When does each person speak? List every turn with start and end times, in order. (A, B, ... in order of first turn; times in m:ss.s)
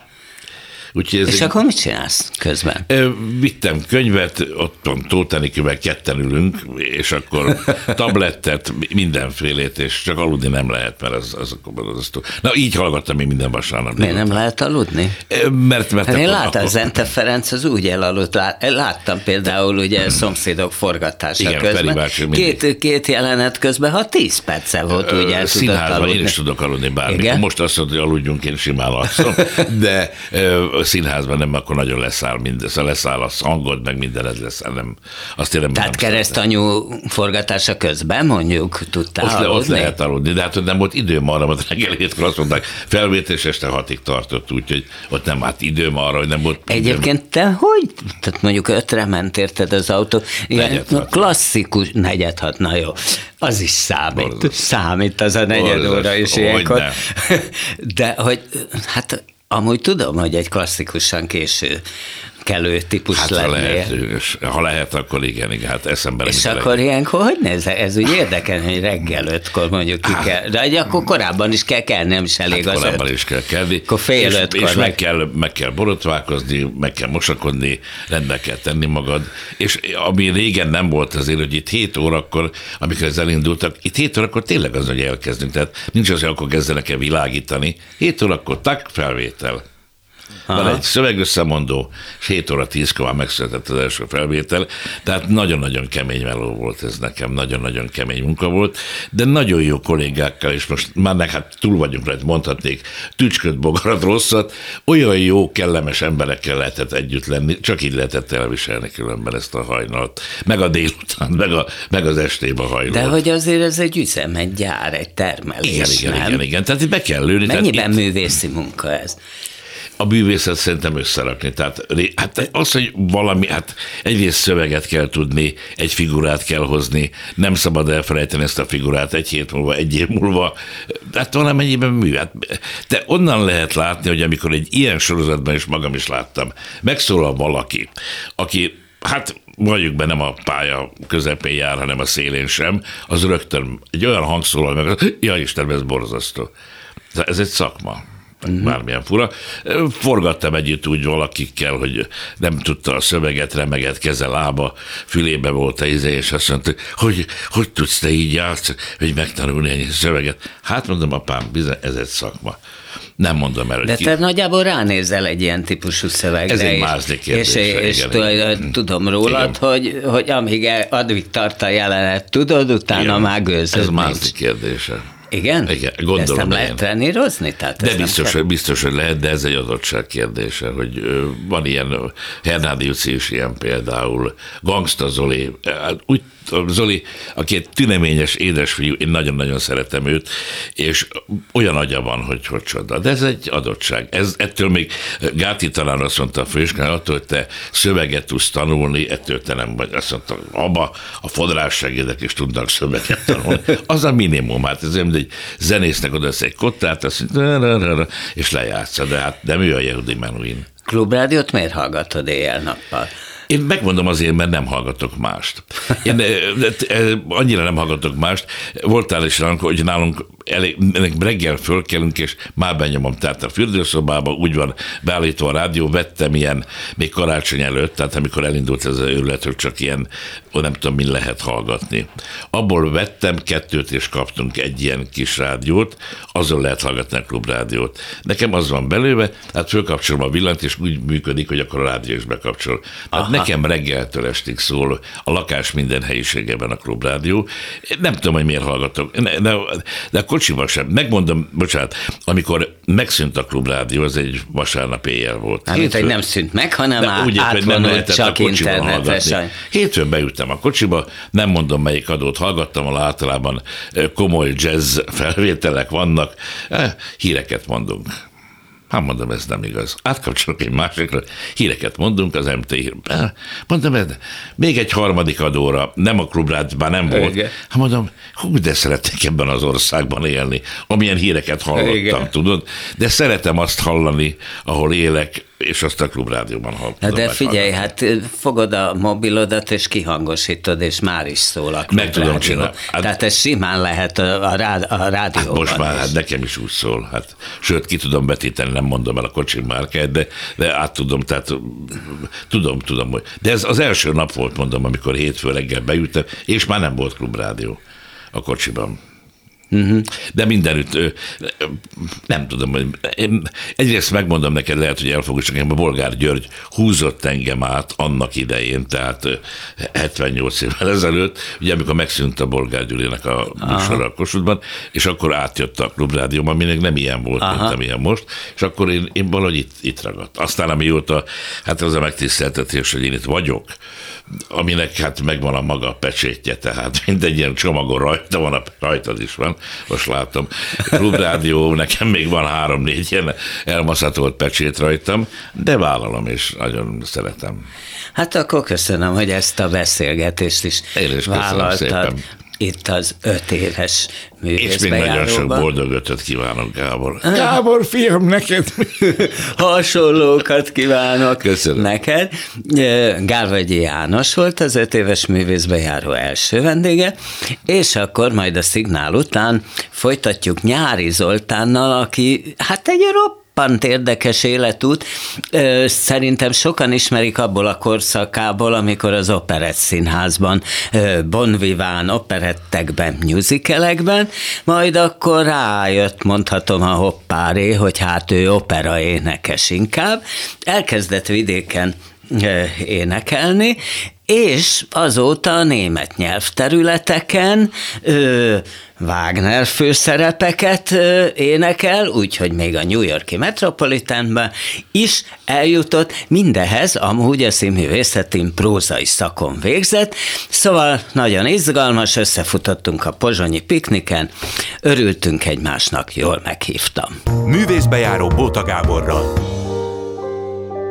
0:01.0-0:01.5 A
0:01.3-0:02.9 B
0:02.9-0:14.2 A
0:14.0-0:15.2 B
0:15.3-0:16.8 A
0:16.1-0:26.3 B
0:21.4-0:22.6 A
0:24.9-0:36.4 A
0:27.0-0:27.4 B
0:35.8-0:39.9 B
0:39.2-0:47.1 A
0:46.7-1:01.8 B
0:50.6-0:51.3 A
0:54.1-0:54.6 A
0:55.5-0:57.0 A
1:02.4-1:03.9 B
1:03.1-1:06.8 A
1:06.2-1:13.0 B
1:10.0-1:10.3 A
1:12.5-1:29.6 A
1:13.9-1:15.0 B
1:30.5-1:30.8 B
1:30.5-1:53.2 A
1:52.9-1:56.4 B
1:55.6-1:58.0 A
1:57.4-1:59.2 B
2:00.0-2:26.5 A
2:27.1-2:42.6 A
2:43.2-2:44.1 A
2:43.8-2:54.3 B
2:46.5-2:48.7 A
2:49.2-2:49.5 A
2:52.9-2:55.0 A
2:55.3-2:58.4 B
2:55.7-2:56.8 A
2:57.8-3:30.7 A
3:30.9-3:33.1 B
3:33.5-4:16.2 A
4:15.7-4:19.5 B
4:17.0-4:28.1 A
4:28.9-4:47.9 A
4:37.1-4:37.5 B
4:41.8-4:42.3 B
4:47.0-4:56.1 B
4:51.9-4:53.1 A
4:55.4-5:07.8 A
5:08.3-5:09.0 A
5:09.7-5:10.1 B
5:10.1-5:33.8 A
5:23.6-5:24.0 B
5:27.4-5:27.8 B
5:34.3-5:47.6 A
5:48.2-5:55.7 B
5:51.0-5:52.2 A
5:54.6-5:58.9 A
5:57.2-5:57.6 B
5:59.0-6:54.3 B
6:01.4-6:01.9 A
6:54.8-6:57.2 B
6:57.4-6:59.4 C